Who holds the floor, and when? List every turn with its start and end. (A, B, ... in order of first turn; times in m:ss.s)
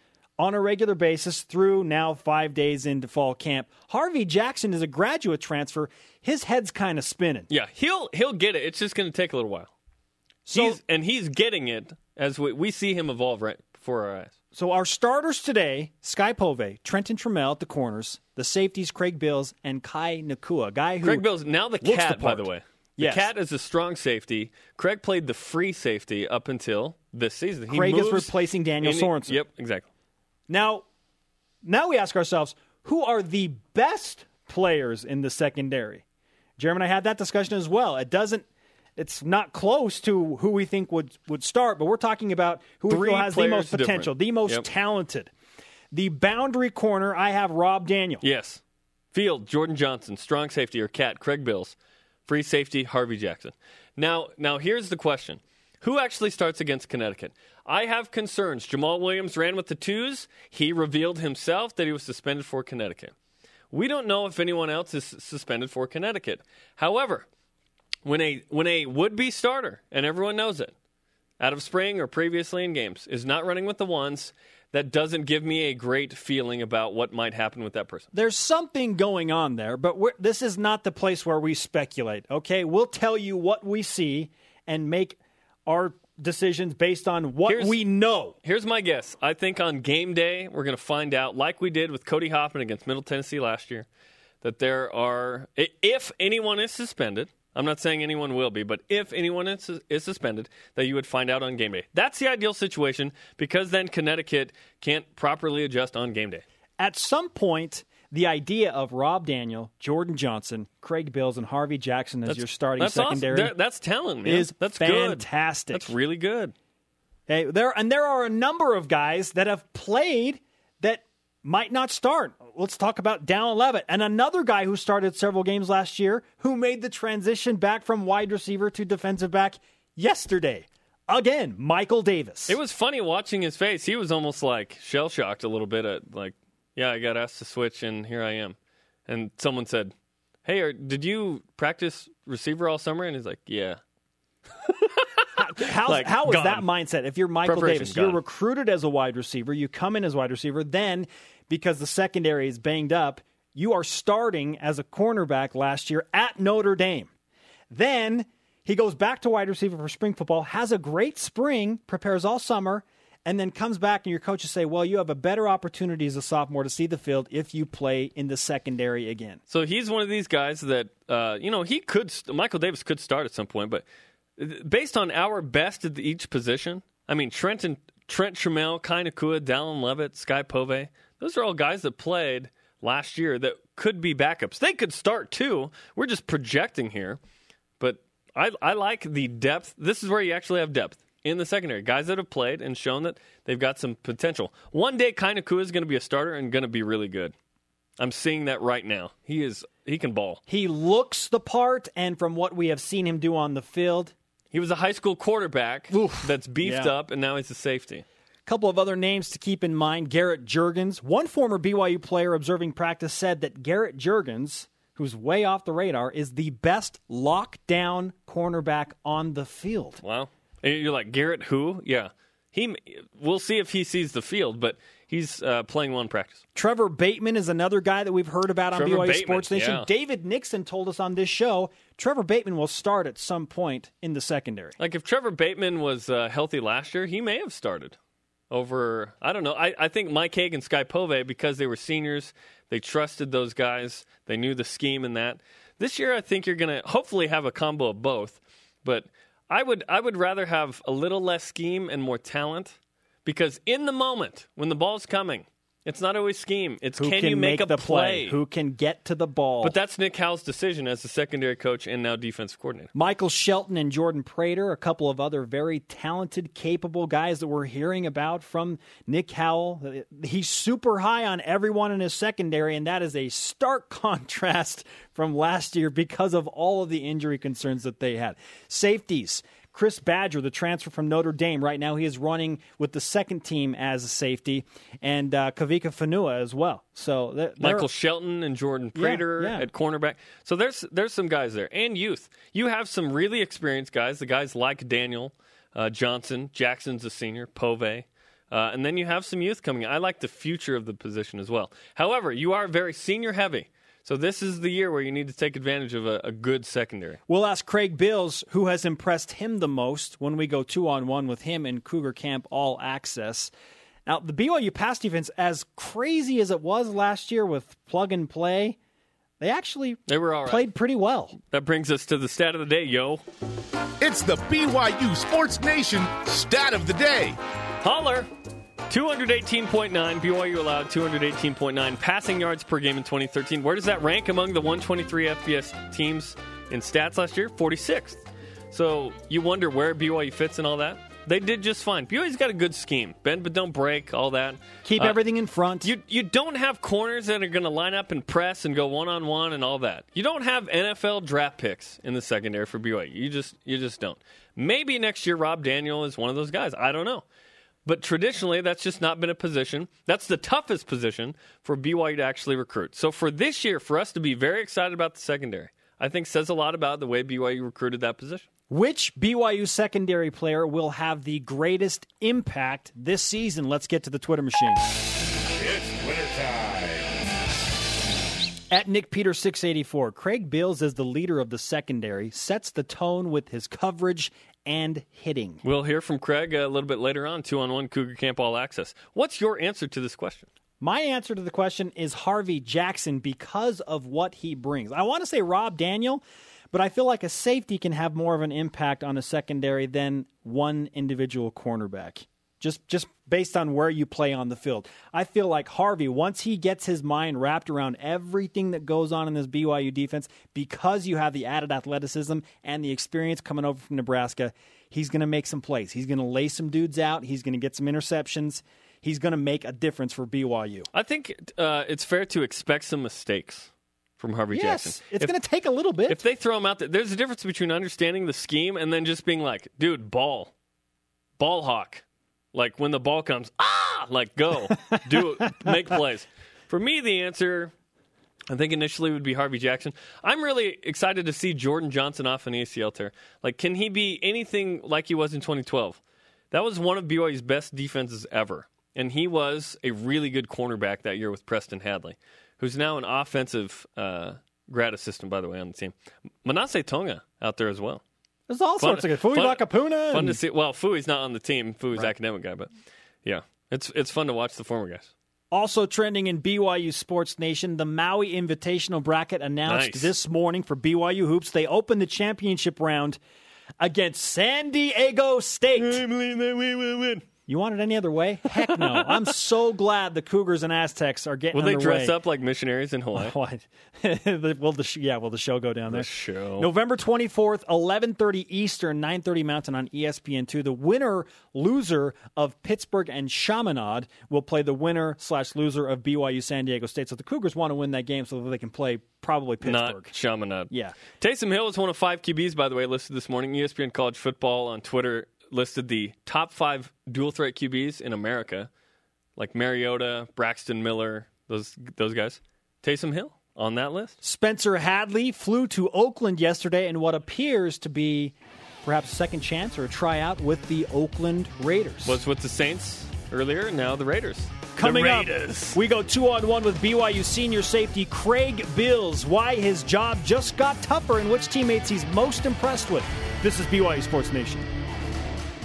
0:00.4-0:07.5 A
0:07.5-0:09.7 B
0:10.4-0:10.8 A
0:10.5-0:14.3 B
0:14.5-0:21.2 A
0:21.0-0:29.8 B
0:21.8-0:23.3 A
0:27.7-0:29.4 A
0:30.5-0:30.8 A
0:31.6-0:36.0 A
0:36.6-0:38.4 A
0:39.0-0:45.3 A
0:42.9-0:44.7 B
0:45.9-0:48.2 A
0:48.2-0:48.6 B
0:49.1-1:03.1 B
1:03.7-1:07.2 B
1:08.0-1:10.7 B
1:11.4-1:18.1 B
1:18.1-1:28.3 A
1:27.5-1:27.8 B
1:28.4-1:33.8 B
1:34.4-1:46.4 B
1:46.8-1:53.5 A
1:52.3-1:56.5 B
1:54.2-1:55.9 A
1:57.3-2:12.6 A
2:12.5-2:18.6 B
2:19.1-2:19.9 B
2:20.4-2:23.8 B
2:24.6-2:26.6 B
2:25.4-2:37.1 A
2:27.4-2:28.2 B
2:37.7-2:49.4 A
2:49.5-2:53.8 B
2:54.4-3:07.2 B
3:07.8-3:17.3 B
3:18.0-3:20.4 B
3:20.5-3:24.1 A
3:24.5-3:28.0 B
3:25.9-3:26.9 A
3:28.4-3:40.0 A
3:40.0-3:46.4 B
3:46.6-3:54.8 A
3:48.7-3:49.9 B
3:54.8-3:58.0 B
3:58.5-4:18.4 B
4:17.0-4:19.7 A
4:19.6-4:22.9 B
4:22.9-4:47.9 A
4:47.6-5:07.2 B
4:49.0-4:49.6 A
5:07.3-5:13.5 A
5:14.0-5:18.8 A
5:19.4-5:21.4 A
5:20.1-5:20.6 B
5:21.5-5:23.2 B
5:24.0-5:27.4 C
5:27.8-5:28.3 B
5:28.9-5:45.2 B
5:44.8-5:45.9 A
5:45.8-5:57.2 B
5:57.8-6:08.5 B
6:08.7-6:14.9 A
6:15.6-6:17.1 C
6:18.7-6:25.6 A
6:25.6-6:30.5 B
6:30.8-7:00.9 A
7:00.9-7:05.3 B
7:04.5-7:06.2 A
7:06.1-7:10.5 B
7:11.4-7:17.7 B
7:14.8-7:15.7 A
7:18.5-7:26.0 B
7:26.5-7:38.0 B
7:38.5-7:40.4 A
7:38.8-7:42.7 B
7:43.2-7:45.1 B
7:45.5-7:53.2 A
7:49.6-7:50.1 B
7:53.8-7:56.0 A
7:55.8-7:57.2 B
7:57.5-8:02.2 A
7:58.7-7:59.3 B
8:01.5-8:03.3 B
8:03.1-8:20.1 A
8:05.9-8:06.7 B
8:19.6-8:28.7 B
8:20.7-8:21.0 A
8:29.4-8:34.2 B
8:34.2-8:42.2 A
8:42.0-8:45.8 B
8:44.8-8:54.7 A